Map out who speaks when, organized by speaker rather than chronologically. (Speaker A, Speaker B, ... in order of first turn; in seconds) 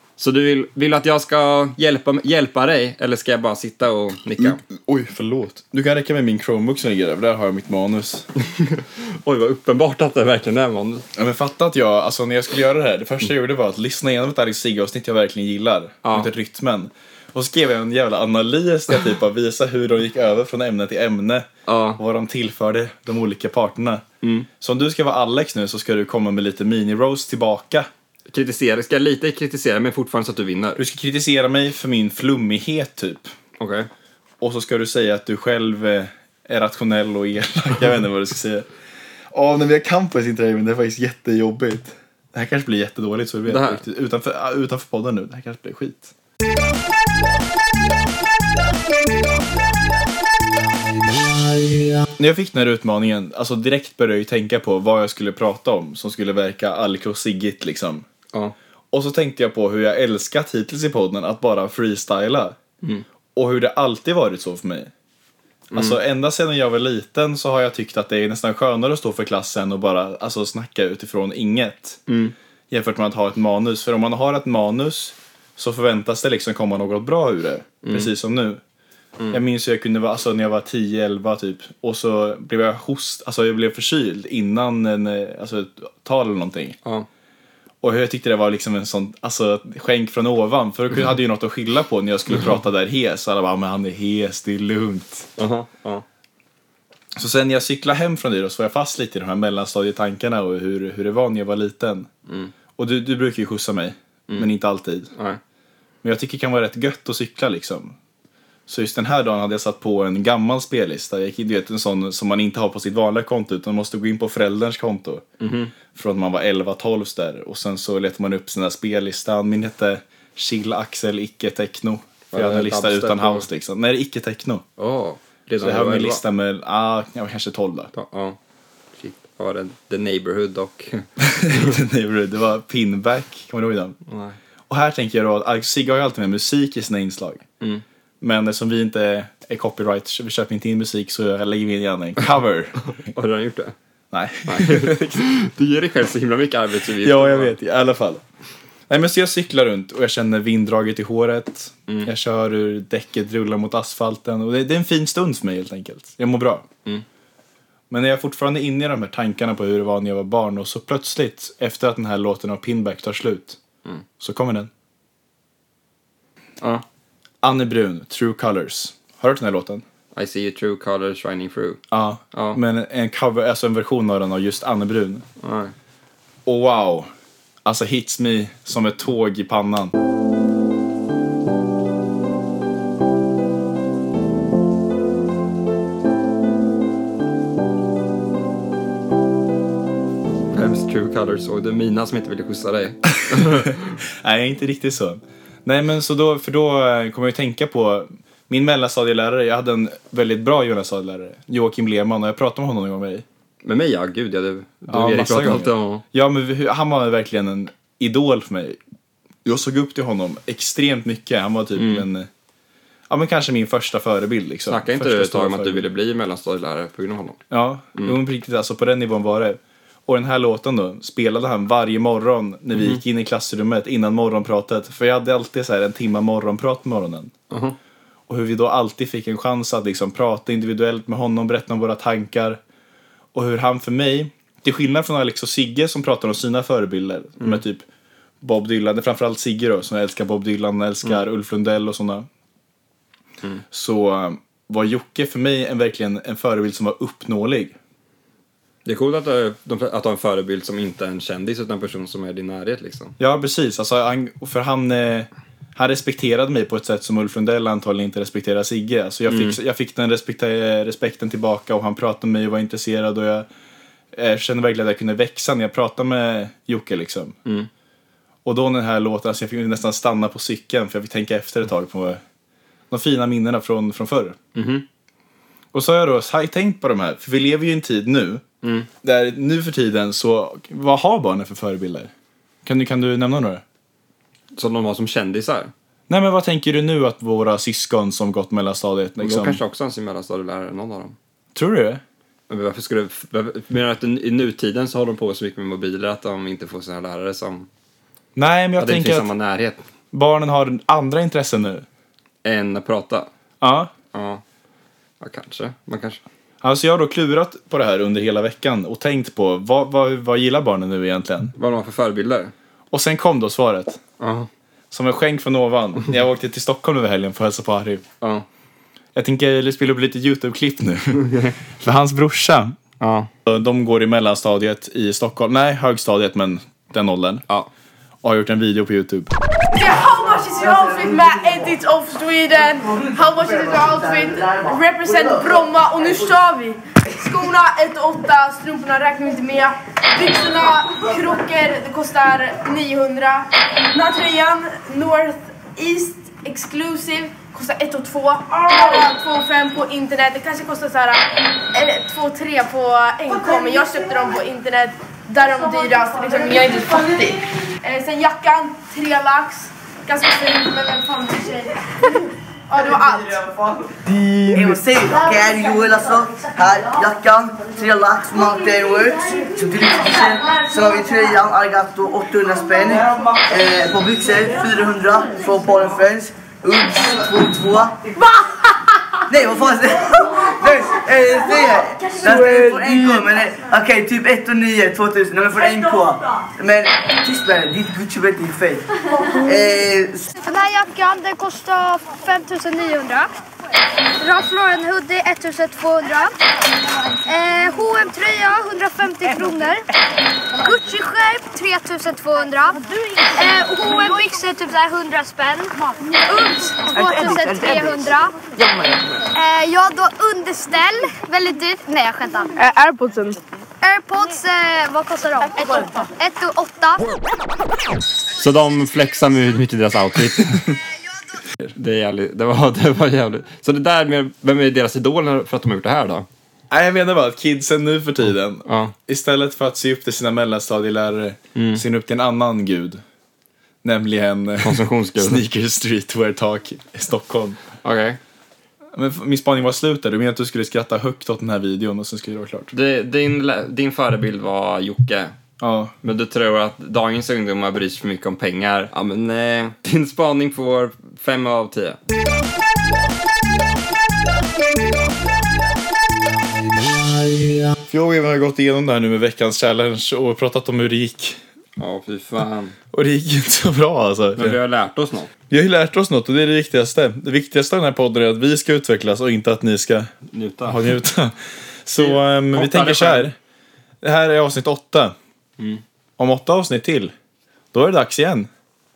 Speaker A: 0.2-4.6, 8.4-11.1, 16.0-16.3, 21.7-22.0, 24.2-24.5, 28.3-30.8, 33.6-33.9, 43.5-43.8, 65.7-66.0, 72.1-72.3, 77.8-78.1, 95.4-96.0, 102.3-102.5, 115.4-115.7, 122.3-123.5, 124.8-126.2, 127.9-128.4, 129.0-131.8, 134.1-134.4, 143.0-143.8, 144.5-147.6, 170.2-171.8, 172.3-172.6, 175.4-175.7, 190.3-193.9, 203.6-206.0, 211.8-212.1, 214.7-217.4, 222.8-223.0, 227.5-227.8, 248.8-253.2, 259.3-259.6, 274.6-274.9, 278.6-278.9, 284.6-285.7, 289.2-291.2, 292.5-297.7, 298.8-299.9, 302.4-303.3, 304.1-304.4, 305.2-306.2, 311.6-312.5, 314.2-314.5, 318.2-318.5, 321.1-321.6, 323.0-323.3, 418.4-420.7, 421.7-426.3, 428.6-428.9, 431.6-431.8, 434.6-435.4, 437.8-438.2, 442.7-445.4, 446.0-452.0, 461.8-462.8, 464.4-465.3, 470.3-471.0, 472.0-473.3
Speaker B: 4.4-8.3, 11.2-24.0, 24.6-27.9, 30.8-33.3, 34.4-38.7, 39.3-46.1, 52.2-58.1, 58.9-62.6, 63.4-64.9, 65.7-72.0, 72.7-78.6, 79.3-86.8, 87.8-95.3, 97.2-102.1, 102.8-105.1, 106.0-108.0, 108.7-115.2, 115.9-124.6, 125.6-127.9, 131.2-134.0, 134.7-137.4, 138.2-142.8, 144.1-145.2, 147.0-148.2, 148.9-156.7, 157.9-163.6, 164.2-164.7, 167.4-169.8, 171.9-175.2, 176.5-177.1, 177.7-179.9, 193.3-203.2, 204.9-208.8, 209.4-212.3, 213.1-215.9, 217.5-227.3, 228.3-232.6, 233.3-237.8, 238.4-242.3, 243.7-247.8, 253.2-263.5, 264.1-267.4, 268.4-272.2, 272.9-274.4, 275.7-278.4, 279.0-282.1, 282.6-283.6, 286.1-289.6, 291.6-292.0, 298.4-299.3, 300.1-301.9, 303.6-303.9, 306.6-311.5, 312.9-314.0, 314.9-318.0, 319.1-321.2, 321.8-322.8, 323.5-327.4, 328.2-329.3, 426.7-433.0, 433.8-437.6, 438.9-442.7, 445.6-445.9, 457.9-461.4, 462.9-464.6, 465.5-470.1, 470.7-473.4, 474.0-475.1, 476.2-477.1, 477.7-478.5
Speaker C: 329.7-363.6, 412.6-413.4
Speaker D: 330.5-331.7, 332.9-336.3, 364.5-378.0, 379.3-390.3
Speaker E: 390.4-393.3, 394.2-396.3, 397.3-399.8, 400.6-402.8, 403.4-405.7, 406.2-408.4, 409.3-412.5, 413.8-417.0